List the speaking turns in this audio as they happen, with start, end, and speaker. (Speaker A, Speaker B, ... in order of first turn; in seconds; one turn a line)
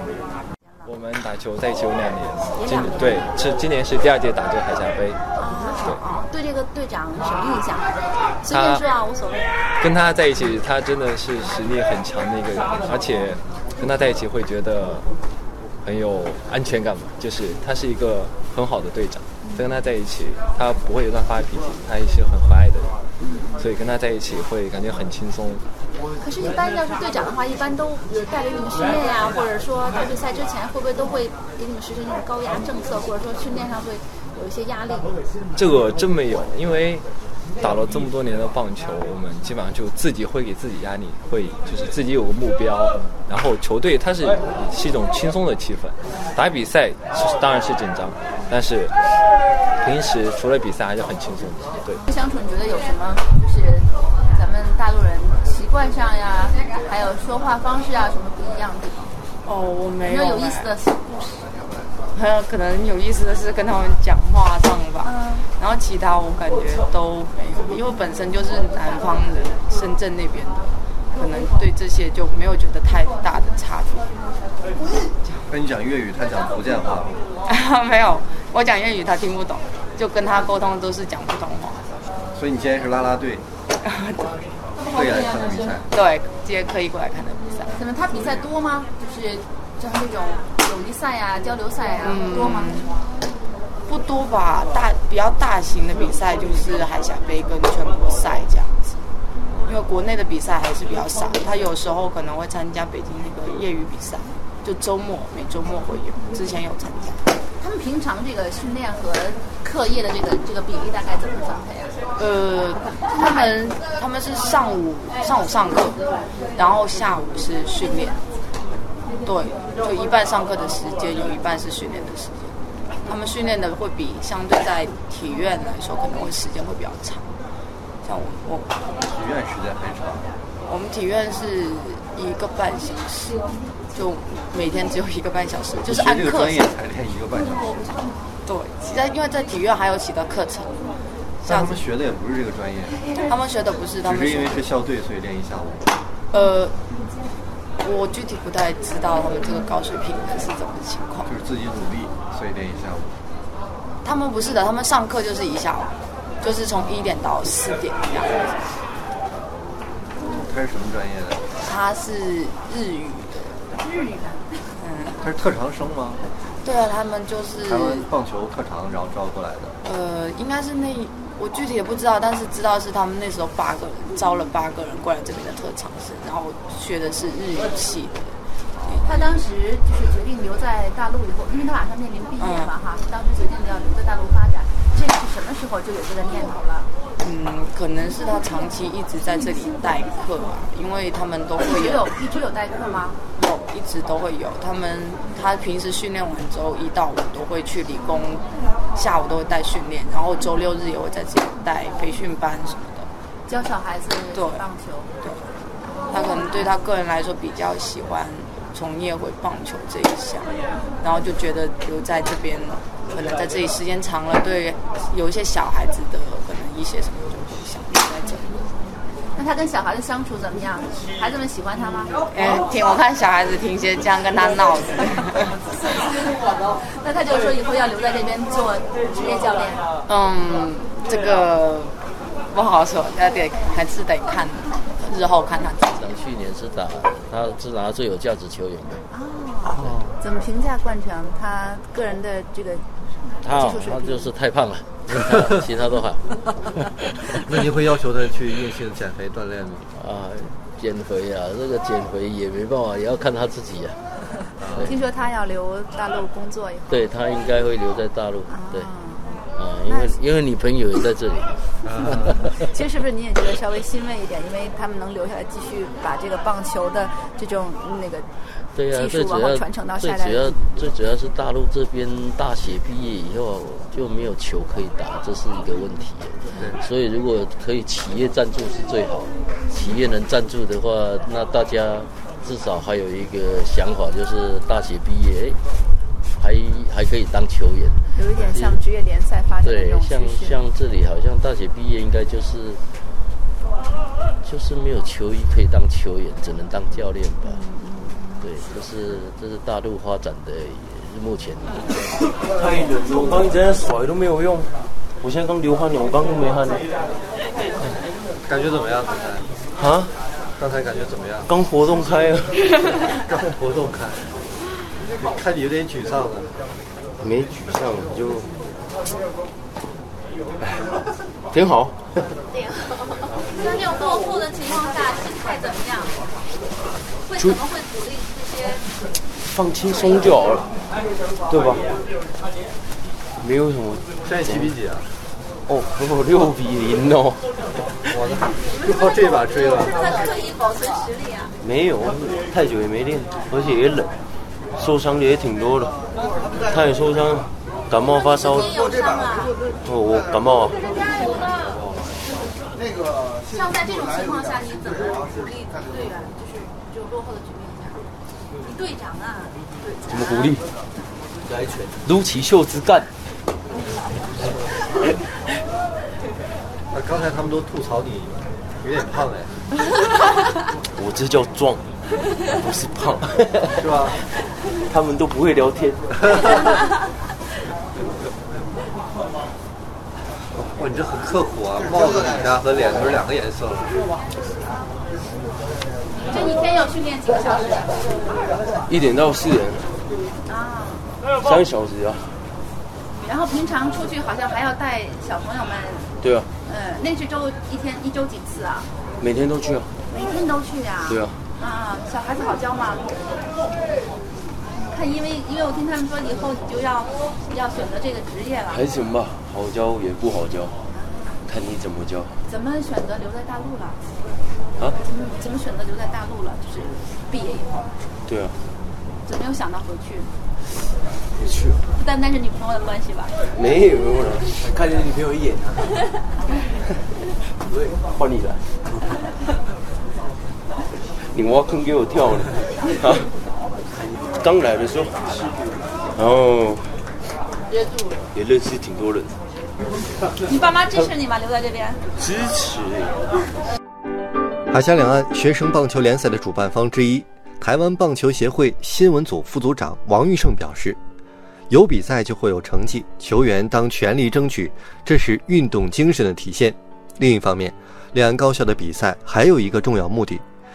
Speaker A: 0.8-5.2
Speaker B: 2.6-3.3
Speaker B: 5.4-9.5
Speaker A: 8.4-8.8
Speaker A: 9.8-15.1
Speaker A: 15.8-22.9
Speaker B: 19.4-19.7
Speaker B: 23.2-23.6
Speaker A: 23.6-25.6
Speaker B: 26.2-35.2
Speaker A: 35.5-37.0
Speaker A: 37.6-48.9
Speaker A: 49.8-52.0
Speaker B: 52.0-59.1
Speaker C: 59.4-60.7
Speaker B: 60.0-61.5
Speaker C: 62.1-74.1
Speaker B: 65.0-65.5
Speaker D: 75.5-77.2
Speaker C: 77.5-81.8
Speaker D: 82.3-83.4
Speaker C: 83.8-84.3
Speaker B: 84.8-85.8
Speaker D: 84.9-85.9
Speaker C: 85.9-87.7
Speaker B: 87.8-92.9
Speaker D: 88.1-88.5
Speaker C: 92.0-92.9
Speaker C: 93.9-99.0
Speaker C: 99.7-107.2
Speaker B: 107.6-112.0
Speaker C: 112.2-116.0
Speaker B: 113.1-113.6
Speaker C: 116.5-118.2
Speaker C: 119.2-127.3
Speaker C: 128.0-128.7
Speaker D: 129.0-130.3
Speaker C: 130.6-133.4
Speaker C: 133.9-136.6
Speaker D: 135.8-138.0
Speaker C: 138.4-140.8
Speaker D: 141.4-143.0
Speaker C: 141.5-141.7
Speaker C: 143.2-144.7
Speaker D: 144.0-145.9
Speaker C: 146.3-146.8
Speaker C: 147.8-151.2
Speaker D: 151.2-153.2
Speaker C: 154.0-158.7
Speaker D: 160.3-161.4
Speaker C: 161.6-163.6
Speaker B: 163.7-164.7
Speaker C: 164.8-165.2
Speaker D: 165.2-166.2
Speaker C: 166.6-168.1
Speaker D: 167.6-169.7
Speaker E: 168.8-169.1
Speaker C: 169.8-179.3
Speaker B: 179.0-186.9
Speaker C: 182.4-182.7
Speaker C: 187.2-192.0
Speaker B: 191.6-193.2
Speaker C: 193.3-203.1
Speaker B: 203.4-205.1
Speaker C: 204.3-204.6
Speaker C: 205.2-205.5
Speaker C: 206.1-218.5
Speaker B: 219.3-222.3
Speaker C: 222.3-225.5
Speaker B: 225.7-229.9
Speaker C: 230.1-231.9
Speaker C: 232.5-236.1
Speaker F: 236.0-239.0
Speaker B: 239.1-242.8
Speaker D: 239.6-240.2
Speaker B: 243.4-244.3
Speaker F: 243.4-246.2
Speaker D: 247.4-249.8
Speaker F: 249.9-254.0
Speaker D: 254.6-255.1
Speaker B: 254.8-257.0
Speaker F: 256.9-258.9
Speaker B: 258.5-260.1
Speaker F: 259.5-261.7
Speaker D: 261.8-262.5
Speaker B: 262.1-268.3
Speaker F: 268.7-285.6
Speaker B: 268.9-270.6
Speaker F: 286.3-288.8
Speaker B: 288.1-290.6
Speaker F: 289.6-292.8
Speaker F: 294.4-297.6
Speaker B: 297.4-298.4
Speaker F: 298.4-302.3
Speaker G: 302.5-306.9
Speaker D: 308.4-309.4
Speaker G: 309.8-310.1
Speaker D: 310.6-311.5
Speaker G: 311.5-312.9
Speaker D: 313.3-314.2
Speaker D: 315.2-316.5
Speaker G: 317.2-318.5
Speaker G: 321.5-322.0
Speaker B: 323.5-326.2
Speaker B: 327.3-328.8
Speaker G: 327.3-327.6
Speaker G: 329.5-330.7
Speaker G: 331.5-331.8
Speaker G: 333.4-334.7
Speaker D: 334.2-335.1
Speaker G: 335.7-337.5
Speaker D: 338.1-340.3
Speaker B: 339.6-341.5
Speaker G: 341.6-344.1
Speaker G: 344.8-346.0
Speaker G: 346.6-349.0
Speaker B: 348.2-349.6
Speaker G: 349.8-351.1
Speaker B: 351.1-351.7
Speaker B: 353.5-358.1
Speaker B: 358.6-360.6
Speaker G: 360.1-360.6
Speaker G: 361.9-363.1
Speaker D: 366.9-369.5
Speaker G: 370.9-371.8
Speaker G: 372.5-374.2
Speaker D: 373.8-374.2
Speaker G: 374.8-376.0
Speaker D: 380.5-384.0
Speaker B: 386.1-388.4
Speaker G: 388.9-389.9
Speaker B: 390.4-391.1
Speaker G: 391.4-392.4
Speaker B: 393.1-398.9
Speaker G: 396.2-396.5
Speaker G: 399.2-399.9
Speaker B: 400.1-403.1
Speaker G: 401.1-401.4
Speaker B: 404.8-408.9
Speaker G: 408.7-410.8
Speaker B: 410.9-411.4
Speaker G: 411.4-412.3
Speaker B: 412.4-414.0
Speaker B: 415.0-417.9
Speaker G: 418.3-418.5
Speaker B: 419.2-420.3
Speaker G: 421.4-421.8
Speaker B: 421.9-423.4
Speaker G: 423.5-425.6
Speaker G: 428.1-428.7
Speaker G: 431.0-433.3
Speaker G: 434.0-435.4
Speaker G: 436.1-437.0
Speaker B: 437.7-438.1
Speaker G: 438.3-439.3
Speaker B: 440.4-442.0
Speaker G: 442.2-443.2
Speaker E: 444.7-451.0
Speaker E: 451.7-460.4